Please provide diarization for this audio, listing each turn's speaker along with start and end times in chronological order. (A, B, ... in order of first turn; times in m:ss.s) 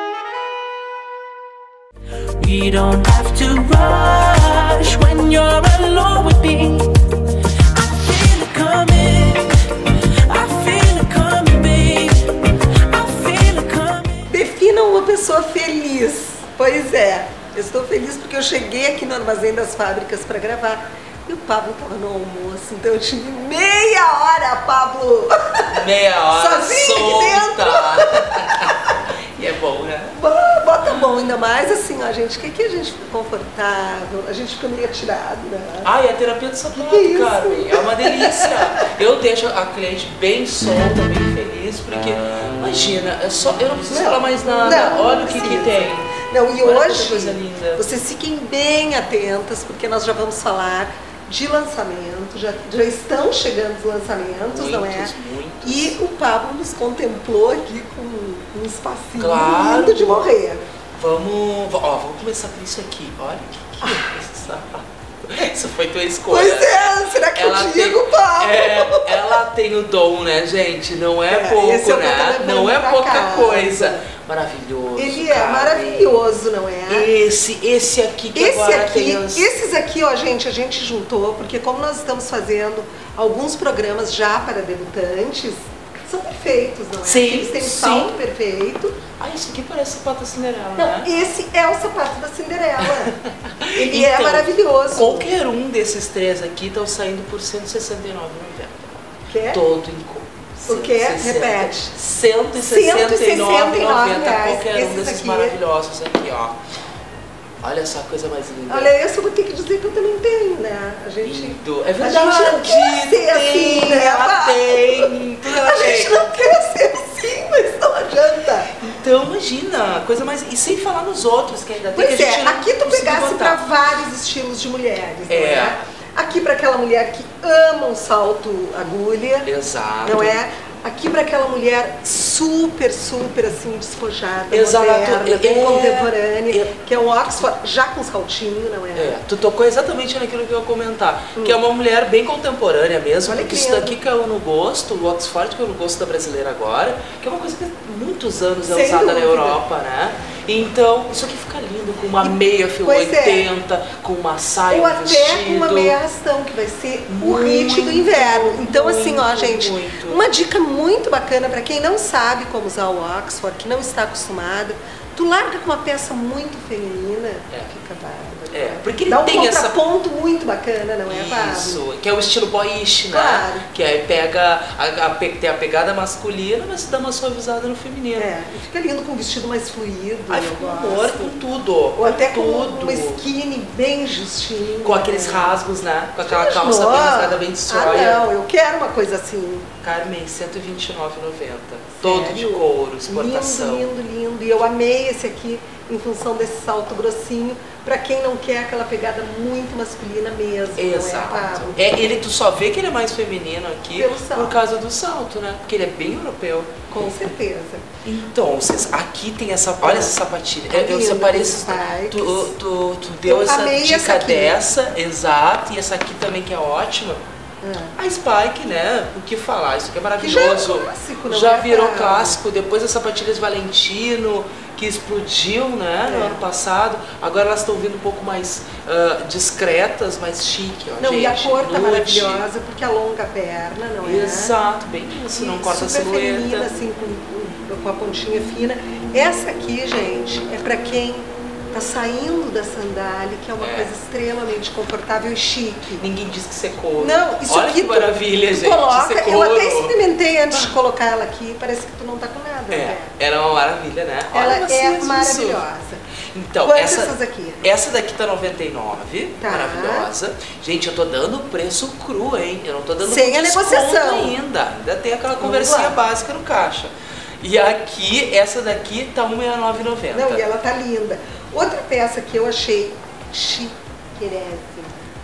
0:02.4-0:06.9 A
0:07.7-0:14.3 A
0:11.0-0:11.8 B
0:13.4-0:13.9 B
0:14.3-0:25.7 C
0:25.7-0:30.2 B
0:26.3-0:29.0 C
0:30.2-0:35.9 C
0:30.8-0:31.3 B
0:35.8-0:47.8 B
0:36.8-0:38.9 C
0:43.9-1:00.6 C
0:54.4-0:56.0 B
0:59.2-1:00.4 B
1:00.9-1:16.2 B
1:03.8-1:04.1 C
1:06.3-1:09.4 C
1:11.3-1:14.1 C
1:15.0-1:17.1 C
1:16.9-1:19.5 B
1:18.3-1:29.0 C
1:27.0-1:28.1 B
1:29.2-1:31.1 B
1:30.8-1:33.2 C
1:32.8-1:46.6 B
1:33.7-1:35.3 C
1:39.3-1:39.6 C
1:40.7-1:41.9 C
1:42.6-1:45.6 C
1:47.6-1:48.9 B
1:48.7-1:58.7 C
1:51.2-1:56.5 B
1:58.7-2:03.7 B
2:01.9-2:09.5 C
2:05.3-2:05.8 B
2:09.4-2:10.4 B
2:10.0-2:19.2 C
2:14.5-2:16.7 B
2:19.0-2:36.0 B
2:23.2-2:24.0 C
2:28.7-2:29.6 C
2:32.2-2:33.5 C
2:34.7-2:51.8 C
2:37.1-2:40.2 B
2:48.5-2:49.8 B
2:51.1-2:58.3 B
2:53.1-2:53.6 C
2:58.2-3:01.4 C
3:00.3-3:03.2 B
3:02.0-3:05.6 C
3:04.8-3:08.3 B
3:06.3-3:09.7 C
3:09.8-3:13.9 B
3:12.0-3:22.0 C
3:20.8-3:26.8 B
3:24.0-3:24.6 C
3:26.9-3:27.9 C
3:28.0-3:37.2 B
3:29.8-3:30.2 C
3:30.7-3:32.5 C
3:33.3-3:34.6 C
3:37.6-3:38.0 C
3:38.0-3:52.5 B
3:40.2-3:42.4 C
3:46.1-3:46.4 C
3:51.0-3:54.6 C
3:54.0-3:56.7 B
3:55.3-4:06.0 C
4:03.6-4:03.9 B
4:06.0-4:10.0 B
4:07.0-4:13.2 C
4:12.7-4:15.6 B
4:14.3-4:16.0 C
4:16.3-4:30.4 B
4:16.6-4:17.7 C
4:19.4-4:20.1 C
4:23.0-4:24.4 C
4:25.4-4:26.0 C
4:30.1-4:35.0 C